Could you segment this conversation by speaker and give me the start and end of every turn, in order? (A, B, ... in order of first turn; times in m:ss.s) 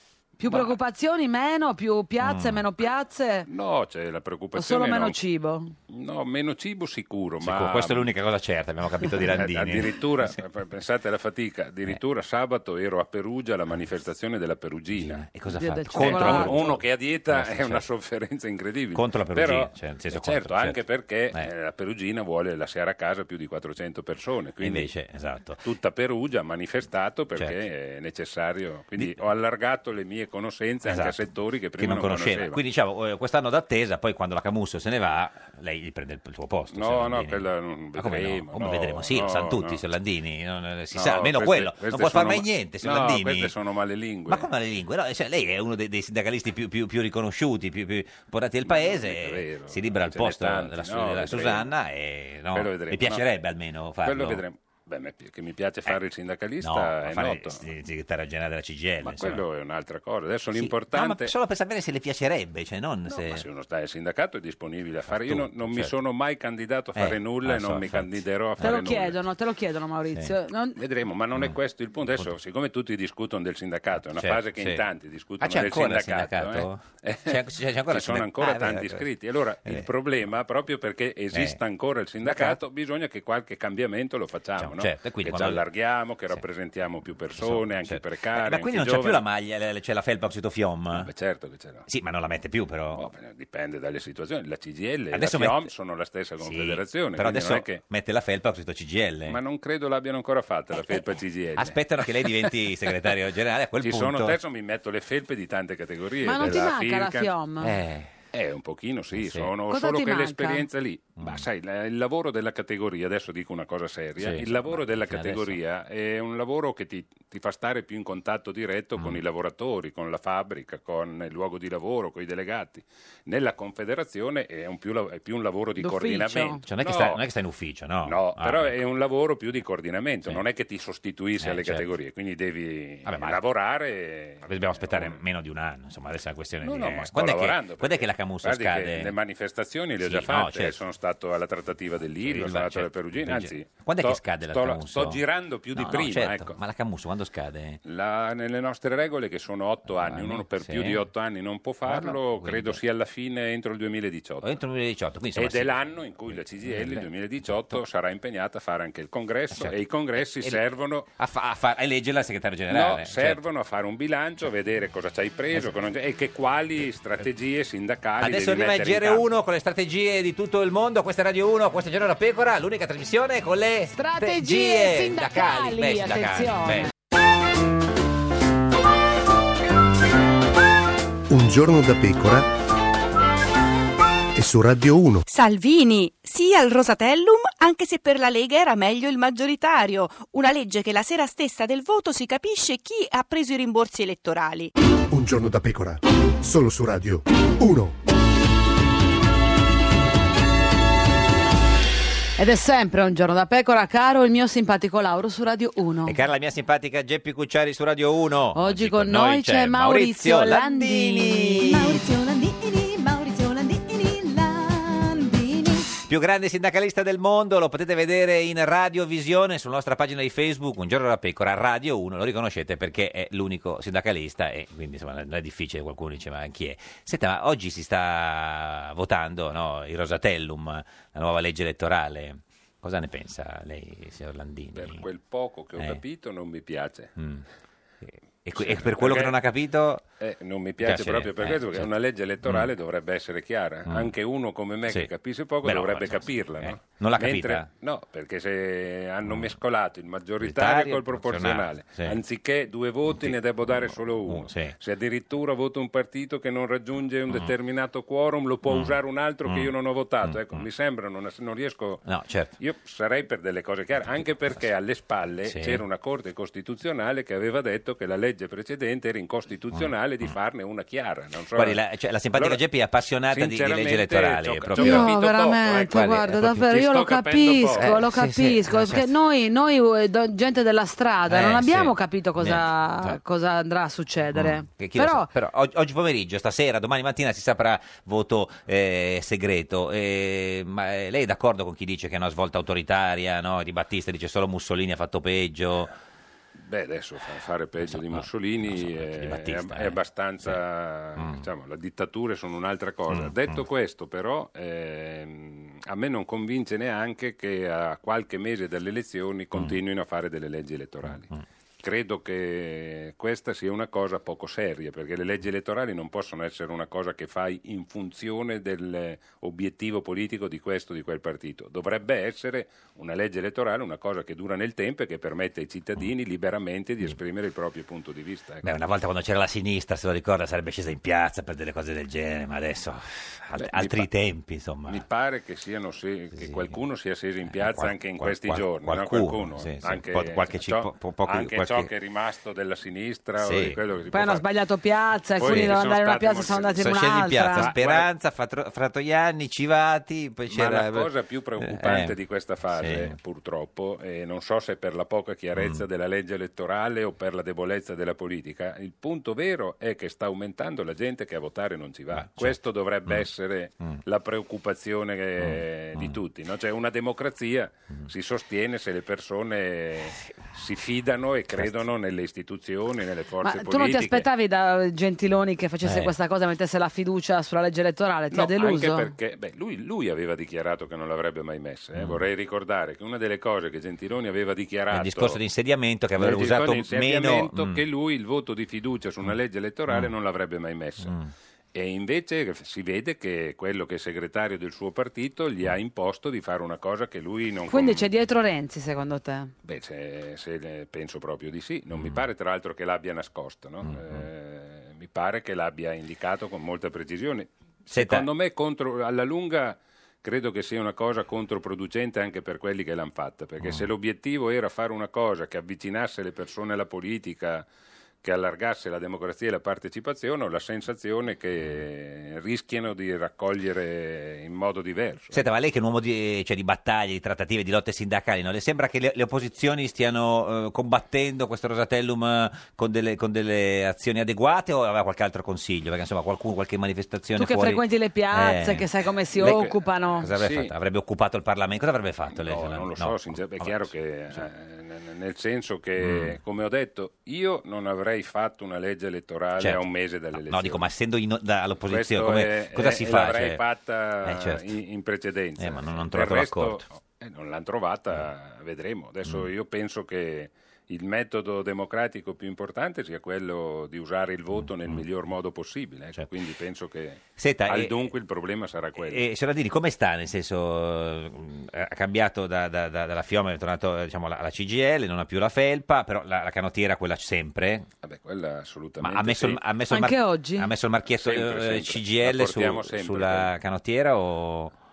0:00.4-0:03.5 A
0:02.2-0:02.6 B
0:03.5-0:05.2 C
0:04.6-0:05.7 A
0:05.9-0:08.1 C
0:07.4-0:10.4 B
0:09.3-0:15.2 C
0:14.9-0:17.8 B
0:15.5-0:16.8 A
0:15.9-0:24.9 C
0:18.9-0:20.8 B
0:24.6-0:25.6 B
0:25.6-0:32.6 C
0:30.8-0:31.2 B
0:31.8-0:37.4 B
0:36.7-0:39.8 C
0:38.0-0:43.5 B
0:40.9-0:44.5 C
0:44.3-0:54.4 B
0:48.6-0:51.7 C
0:52.5-0:53.2 C
0:54.0-0:57.6 C
0:56.6-0:59.4 B
0:59.0-1:01.3 C
1:00.5-1:03.4 B
1:03.1-1:09.2 C
1:05.1-1:05.9 B
1:07.0-1:08.8 B
1:08.6-1:10.8 A
1:10.8-1:29.2 C
1:14.1-1:14.8 B
1:15.4-1:19.0 B
1:21.3-1:21.6 B
1:22.2-1:22.6 B
1:24.6-1:25.6 B
1:27.4-1:31.1 B
1:30.9-1:31.9 C
1:31.9-1:33.0 B
1:32.9-1:37.8 C
1:35.1-1:35.7 B
1:36.4-1:39.4 B
1:39.3-1:41.8 C
1:41.6-1:44.4 B
1:43.8-1:47.3 C
1:46.2-1:47.7 A
1:47.6-1:48.2 B
1:48.3-2:07.2 C
1:49.1-1:49.5 B
1:49.7-1:50.6 A
1:51.2-1:51.4 B
1:54.2-1:55.6 B
2:05.8-2:06.6 A
2:06.6-2:08.7 B
2:08.0-2:15.2 C
2:11.4-2:11.8 B
2:13.0-2:13.4 B
2:14.4-2:19.1 B
2:16.6-2:26.6 C
2:20.0-2:20.8 B
2:22.2-2:25.2 B
2:25.7-2:27.8 B
2:27.8-2:34.6 C
2:29.9-2:31.0 B
2:31.8-2:32.8 B
2:34.4-2:35.7 B
2:35.3-2:41.1 C
2:36.3-2:37.8 B
2:39.5-2:40.6 B
2:41.2-2:43.4 B
2:42.7-2:49.2 C
2:48.2-2:56.9 B
2:53.9-2:56.9 A
3:01.3-3:02.5 D
3:04.4-3:05.2 D
3:05.3-3:14.7 E
3:15.1-3:18.0 D
3:22.4-3:26.2 A
3:26.0-3:32.0 B
3:28.5-3:31.8 A
3:31.7-3:35.9 F
3:36.0-3:55.0 B
3:54.7-3:57.1 C
3:57.2-3:57.4 B
3:58.0-4:00.0 B
3:58.5-3:59.3 C
4:00.2-4:22.0 C
4:00.8-4:01.9 B
4:02.4-4:02.7 B
4:03.9-4:04.1 B
4:05.6-4:07.7 B
4:10.4-4:12.2 B
4:13.1-4:14.8 B
4:18.7-4:19.7 B
4:20.2-4:20.6 B
4:22.0-4:22.5 B
4:22.6-4:31.8 C
4:25.4-4:25.8 B
4:29.7-4:30.3 B
4:31.5-4:35.1 B
4:32.3-4:32.6 C
4:33.3-4:38.0 C
4:34.8-4:45.3 A
4:35.9-4:36.6 B
4:37.8-4:39.1 B
4:41.3-4:43.2 B
4:44.3-4:55.9 B
4:56.6-5:11.3 C
4:57.8-5:00.6 B
5:01.2-5:01.4 B
5:03.1-5:03.6 B
5:11.8-5:28.7 C
5:28.6-5:35.0 B
5:33.5-5:34.0 C
5:34.9-5:44.4 C
5:36.3-5:36.8 B
5:37.5-5:41.9 B
5:43.4-5:43.8 B
5:44.1-5:47.7 A
5:45.4-5:46.8 C
5:45.4-5:45.7 B
5:46.8-5:52.1 B
5:47.5-5:48.1 C
5:50.5-6:14.2 C
5:52.7-5:53.1 B
5:55.5-5:55.8 B
6:02.1-6:03.2 B
6:05.4-6:06.2 B
6:13.4-6:19.1 A
6:15.8-6:16.1 B
6:18.3-6:25.4 C
6:21.9-6:22.2 B
6:24.9-6:27.8 B
6:26.2-6:31.1 C
6:31.0-6:31.3 B
6:31.7-6:38.1 C
6:37.7-6:39.5 A
6:39.6-6:57.6 C
6:41.9-6:42.2 B
6:43.8-6:44.2 B
6:47.9-6:48.2 B
6:53.6-6:53.9 B
6:58.2-7:05.4 C
7:05.3-7:18.9 B
7:17.4-7:20.3 A
7:19.4-7:24.4 B
7:19.4-7:19.7 C
7:20.3-7:20.7 C
7:22.3-7:30.9 C
7:26.0-7:26.4 B
7:30.3-7:33.6 B
7:31.9-7:49.2 C
7:34.2-7:34.6 B
7:35.6-7:36.8 B
7:44.6-7:45.0 B
7:47.4-7:47.9 B
7:49.0-7:57.9 B
7:58.0-7:59.6 C
7:59.0-8:04.7 B
7:59.9-8:00.7 A
8:01.1-8:03.5 C